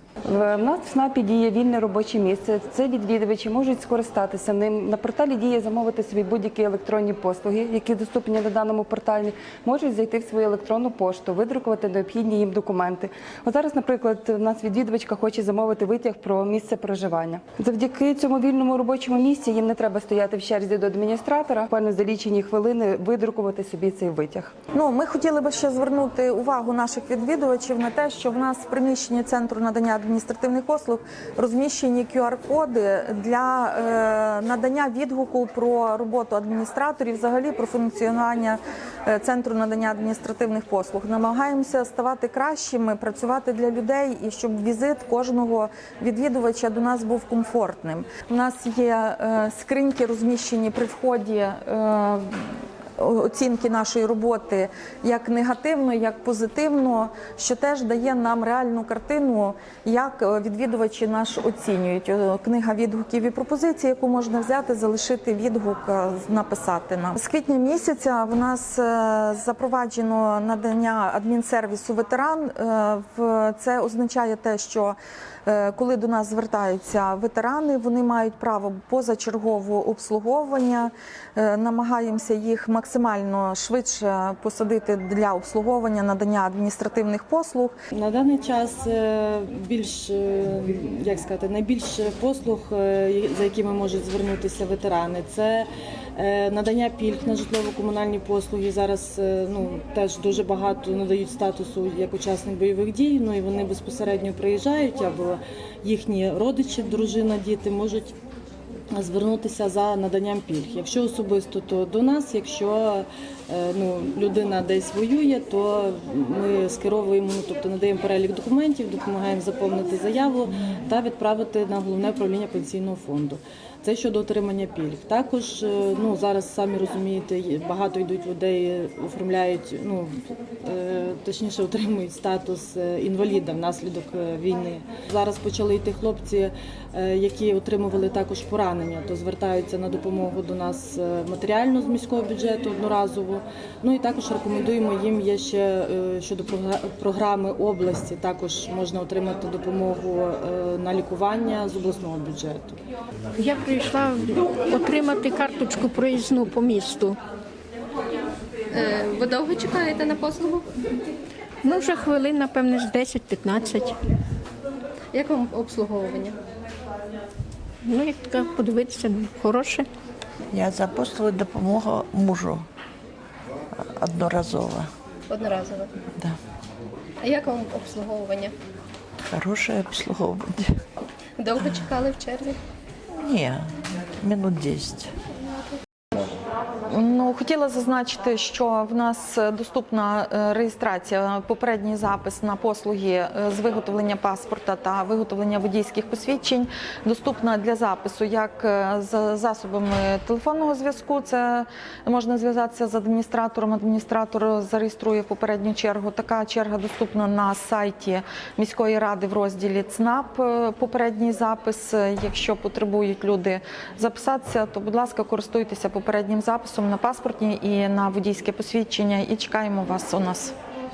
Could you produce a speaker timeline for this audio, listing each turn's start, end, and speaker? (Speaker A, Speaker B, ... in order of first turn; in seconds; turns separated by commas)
Speaker A: 0.2-24.5, Speaker B: 24.7-87.7, Speaker C: 87.9-108.1, Speaker C: 108.9-152.8, Speaker D: 153.4-157.2, Speaker E: 158.7-160.7, Speaker D: 161.6-164.0, Speaker E: 165.1-166.4, Speaker D: 167.8-169.9, Speaker F: 170.5-172.7, Speaker F: 173.7-174.9, Speaker E: 175.3-175.9, Speaker E: 177.2-178.5, Speaker F: 179.3-180.8, Speaker E: 181.4-182.6, Speaker F: 183.1-185.1, Speaker B: 186.9-220.5